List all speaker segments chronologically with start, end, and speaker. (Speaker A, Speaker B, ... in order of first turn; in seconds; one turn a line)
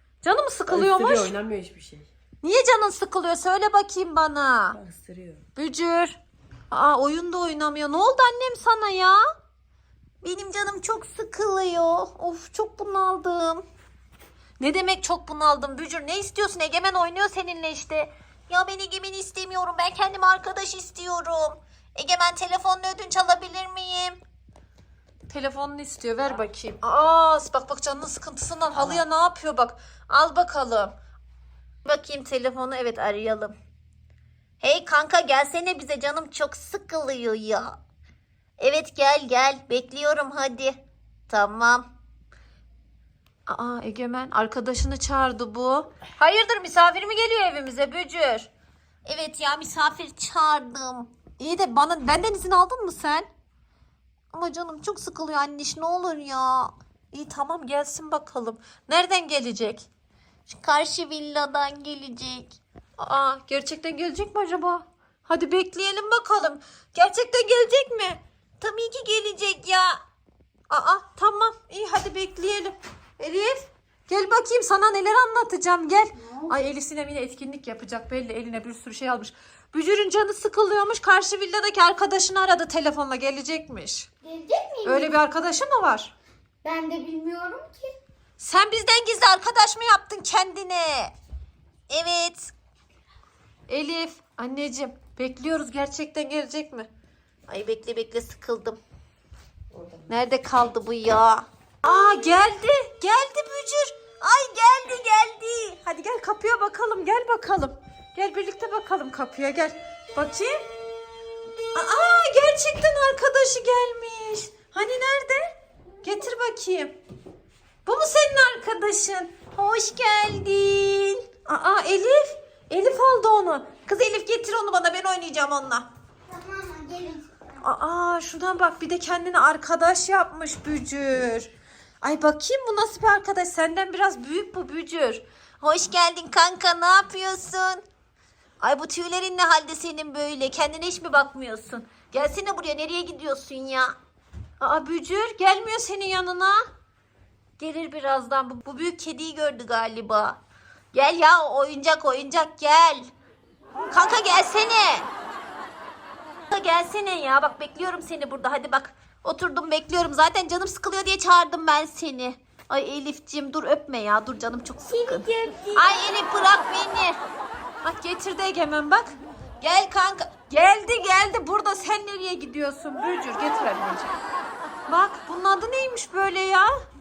Speaker A: 0.2-1.3
Speaker B: 0.7-2.1
Speaker A: 2.4-4.8
Speaker B: 4.7-5.5
Speaker A: 5.6-6.2
Speaker A: 6.7-9.2
Speaker A: 10.2-13.7
Speaker A: 14.6-24.2
Speaker A: 25.3-30.9
Speaker A: 31.9-33.5
Speaker A: 34.6-37.8
Speaker A: 38.6-41.9
Speaker A: 43.5-48.5
Speaker A: 49.0-53.3
Speaker A: 54.3-59.9
Speaker A: 60.5-70.0
Speaker A: 70.7-84.1
Speaker C: 76.2-76.6
Speaker C: 84.2-85.2
Speaker A: 84.8-86.1
Speaker C: 86.6-88.0
Speaker A: 88.4-91.2
Speaker A: 91.9-92.5
Speaker A: 93.7-96.9
Speaker A: 97.5-98.8
Speaker B: 99.7-100.1
Speaker A: 100.1-110.6
Speaker A: 111.7-117.0
Speaker A: 117.9-125.9
Speaker C: 126.3-127.6
Speaker A: 127.6-131.5
Speaker A: 132.0-137.8
Speaker A: 138.6-143.9
Speaker A: 144.6-146.7
Speaker A: 147.6-150.4
Speaker A: 150.9-153.1
Speaker A: 153.9-155.1
Speaker A: 156.5-167.2
Speaker C: 164.9-166.1
Speaker A: 167.8-174.2
Speaker A: 174.9-176.7